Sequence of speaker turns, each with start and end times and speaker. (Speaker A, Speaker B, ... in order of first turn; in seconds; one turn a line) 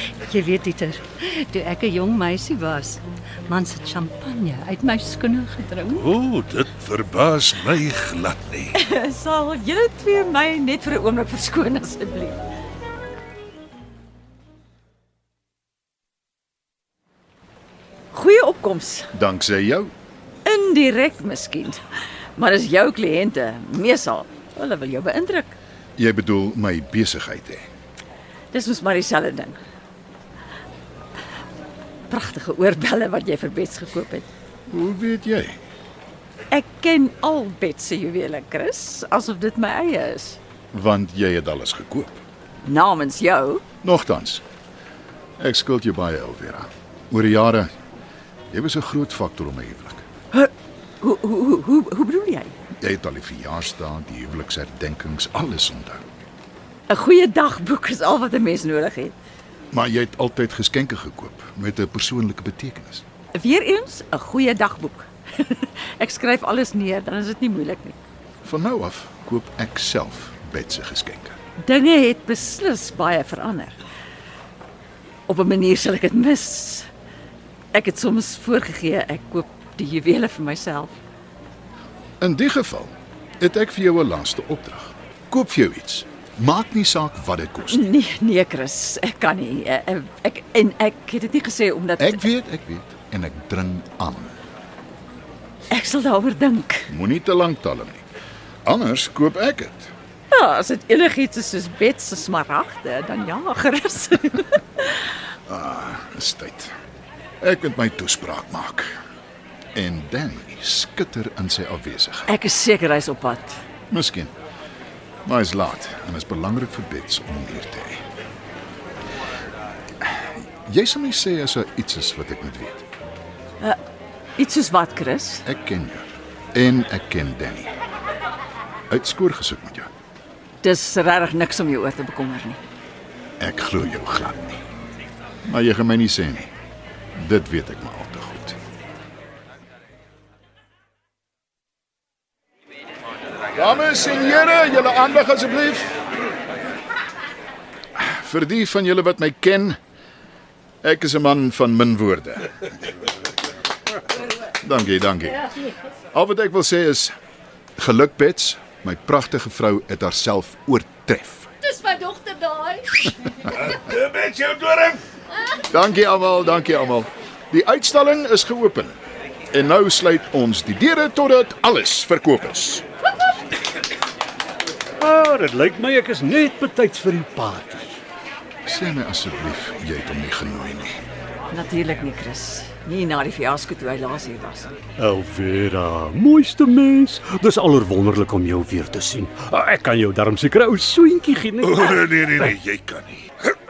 Speaker A: 0.2-6.0
Speaker B: 5.9-8.7
Speaker C: 8.8-12.4
Speaker C: 18.1-19.1
Speaker D: 19.1-19.9
Speaker C: 20.5-21.8
Speaker C: 22.4-25.6
Speaker D: 26.0-27.6
Speaker C: 28.5-29.6
Speaker C: 32.1-34.3
Speaker D: 34.7-35.6
Speaker C: 36.5-40.4
Speaker D: 40.7-42.2
Speaker C: 42.6-43.6
Speaker D: 43.8-44.4
Speaker D: 45.4-47.7
Speaker D: 48.5-50.0
Speaker C: 51.0-52.5
Speaker D: 52.8-56.0
Speaker C: 56.9-59.1
Speaker D: 59.7-63.0
Speaker C: 63.3-68.0
Speaker D: 68.5-71.4
Speaker C: 71.6-73.8
Speaker C: 75.3-76.9
Speaker C: 77.7-81.0
Speaker D: 82.2-87.9
Speaker C: 87.7-92.2
Speaker D: 92.0-94.3
Speaker C: 95.7-96.9
Speaker D: 96.9-98.0
Speaker D: 98.7-99.9
Speaker C: 100.3-105.0
Speaker D: 105.5-106.7
Speaker D: 107.4-108.9
Speaker D: 109.8-112.3
Speaker C: 112.3-113.6
Speaker D: 113.9-114.3
Speaker D: 115.3-118.0
Speaker D: 120.0-122.8
Speaker C: 124.4-125.4
Speaker D: 125.5-127.7
Speaker D: 128.9-129.9
Speaker C: 130.6-132.6
Speaker D: 133.4-134.6
Speaker D: 135.5-136.5
Speaker D: 137.2-138.6
Speaker D: 143.6-145.9
Speaker D: 148.0-149.8
Speaker D: 150.8-152.6
Speaker D: 154.6-155.5
Speaker D: 156.1-157.1
Speaker D: 157.8-161.5
Speaker A: 161.6-163.6
Speaker B: 163.7-165.0
Speaker D: 165.7-169.0
Speaker D: 169.5-172.8
Speaker E: 175.0-178.0
Speaker D: 178.7-180.9
Speaker C: 181.5-184.8
Speaker E: 185.0-191.9
Speaker B: 191.6-193.5